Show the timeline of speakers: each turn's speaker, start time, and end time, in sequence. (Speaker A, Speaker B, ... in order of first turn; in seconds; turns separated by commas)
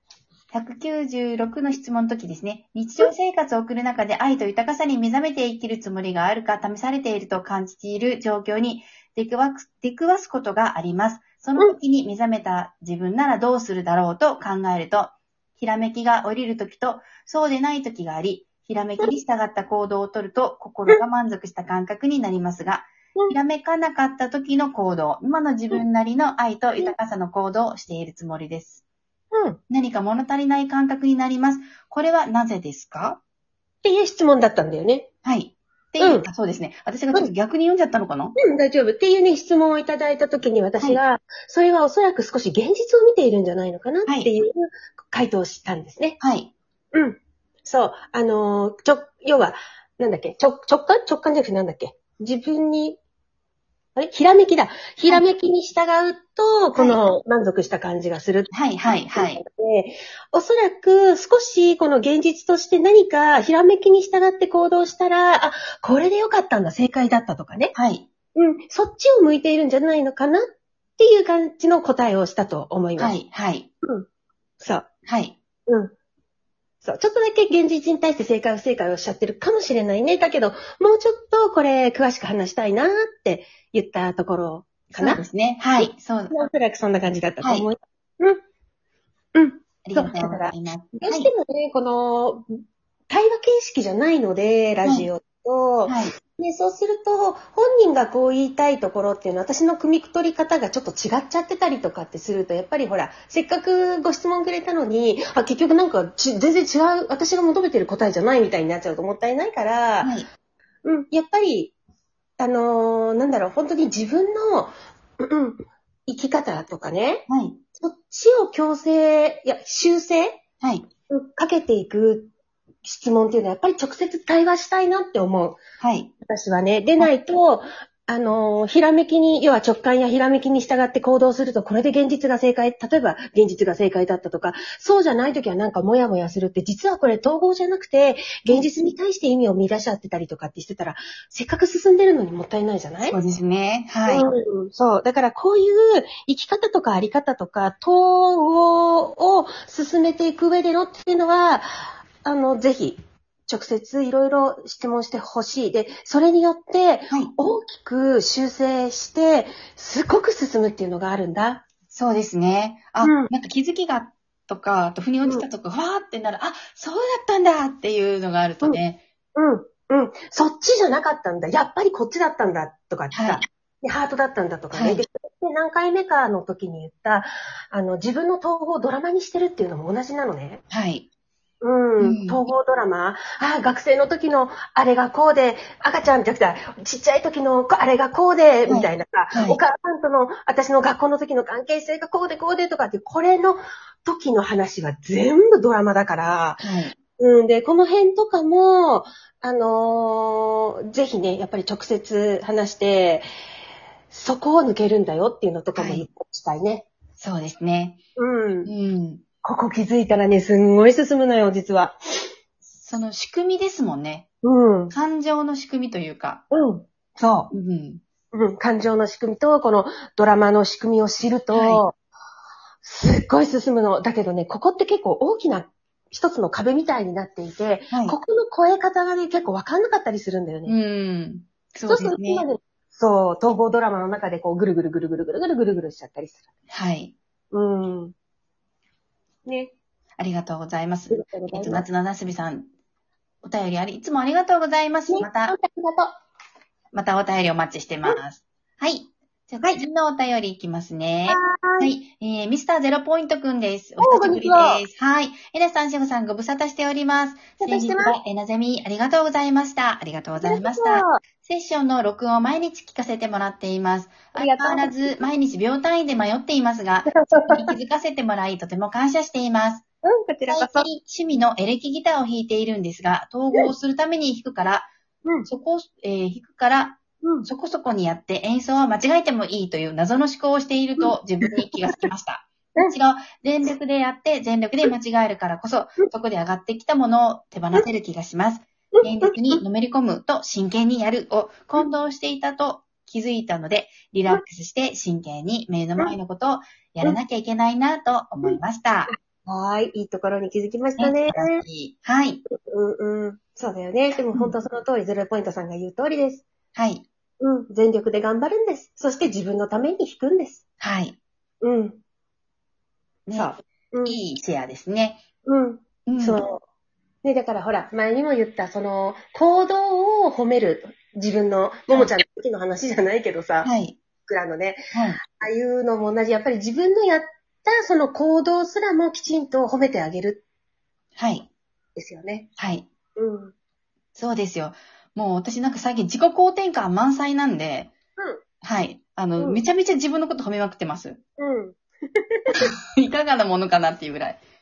Speaker A: 0.5-28.8, Speaker B: 29.3-29.6, Speaker A: 29.7-33.2, Speaker B: 33.8-35.1, Speaker A: 35.2-38.4, Speaker B: 36.0-36.2, Speaker B: 38.4-46.2, Speaker A: 46.2-46.5, Speaker B: 46.9-53.0, Speaker B: 54.0-67.7, Speaker A: 56.8-57.0, Speaker A: 58.5-59.4, Speaker A: 67.7-68.0, Speaker B: 68.3-70.5, Speaker B: 71.0-73.2, Speaker A: 73.0-73.7, Speaker B: 74.6-74.9, Speaker A: 75.0-75.3, Speaker B: 75.7-75.9, Speaker B: 76.8-85.2, Speaker A: 85.0-86.4, Speaker B: 85.8-88.4, Speaker A: 87.4-87.7, Speaker B: 89.3-92.5, Speaker A: 89.8-91.3, Speaker B: 93.1-110.2, Speaker A: 94.8-95.1, Speaker A: 95.8-96.1, Speaker A: 110.0-110.3, Speaker B: 110.8-111.7, Speaker B: 112.4-117.2, Speaker A: 117.3-117.6, Speaker B: 117.8-120.4, Speaker A: 120.6-120.9, Speaker B: 121.1-122.3, Speaker B: 122.8-125.6, Speaker A: 125.8-126.1, Speaker B: 126.2-143.2, Speaker A: 143.1-144.2, Speaker B: 144.1-161.6, Speaker A: 161.9-169.0, Speaker B: 163.0-163.3, Speaker B: 169.3-180.6, Speaker A: 173.1-173.4, Speaker A: 174.7-175.0, Speaker A: 180.7-181.1, Speaker B: 181.6-203.3, Speaker A: 182.0-182.4, Speaker A: 188.7-189.6, Speaker A: 196.6-196.9, Speaker B: 204.1-206.8, Speaker A: 205.7-206.0, Speaker A: 207.2-208.0, Speaker B: 208.2-208.7, Speaker A: 208.7-209.2, Speaker B: 209.4-211.9, Speaker A: 212.8-214.2, Speaker B: 214.4-214.9, Speaker A: 214.9-216.4, Speaker B: 216.5-217.5, Speaker A: 217.5-218.0, Speaker B: 218.3-221.9, Speaker A: 221.5-221.8, Speaker B: 222.8-230.7, Speaker A: 227.9-228.2, Speaker A: 230.7-232.4, Speaker B: 231.9-236.4, Speaker A: 236.7-237.1, Speaker B: 237.5-238.1, Speaker B: 239.4-239.7, Speaker A: 240.2-242.7, Speaker B: 241.1-241.8, Speaker A: 243.4-245.5, Speaker B: 245.1-246.1, Speaker A: 246.9-269.8, Speaker B: 251.3-251.9, Speaker B: 254.0-254.8, Speaker B: 257.6-258.2, Speaker B: 260.4-261.2, Speaker B: 264.4-265.2, Speaker B: 267.1-267.8, Speaker B: 270.0-270.9, Speaker A: 270.5-274.9, Speaker A: 275.5-299.1, Speaker B: 277.2-277.5, Speaker B: 281.0-281.7, Speaker B: 289.0-289.6, Speaker B: 299.4-301.6, Speaker A: 301.0-302.4, Speaker B: 302.5-306.4, Speaker A: 306.7-307.0, Speaker B: 307.4-310.6, Speaker A: 310.8-311.1, Speaker B: 311.6-312.0, Speaker A: 313.3-315.2, Speaker B: 313.3-314.2, Speaker B: 315.4-316.6, Speaker A: 316.1-316.4, Speaker B: 317.2-323.7, Speaker A: 323.6-324.0, Speaker B: 324.3-330.4, Speaker A: 324.9-325.2, Speaker A: 331.1-331.5, Speaker B: 331.9-332.5, Speaker A: 332.6-332.9, Speaker B: 333.2-333.5, Speaker A: 334.1-337.9, Speaker A: 338.6-341.2, Speaker B: 341.4-342.7, Speaker A: 342.5-344.4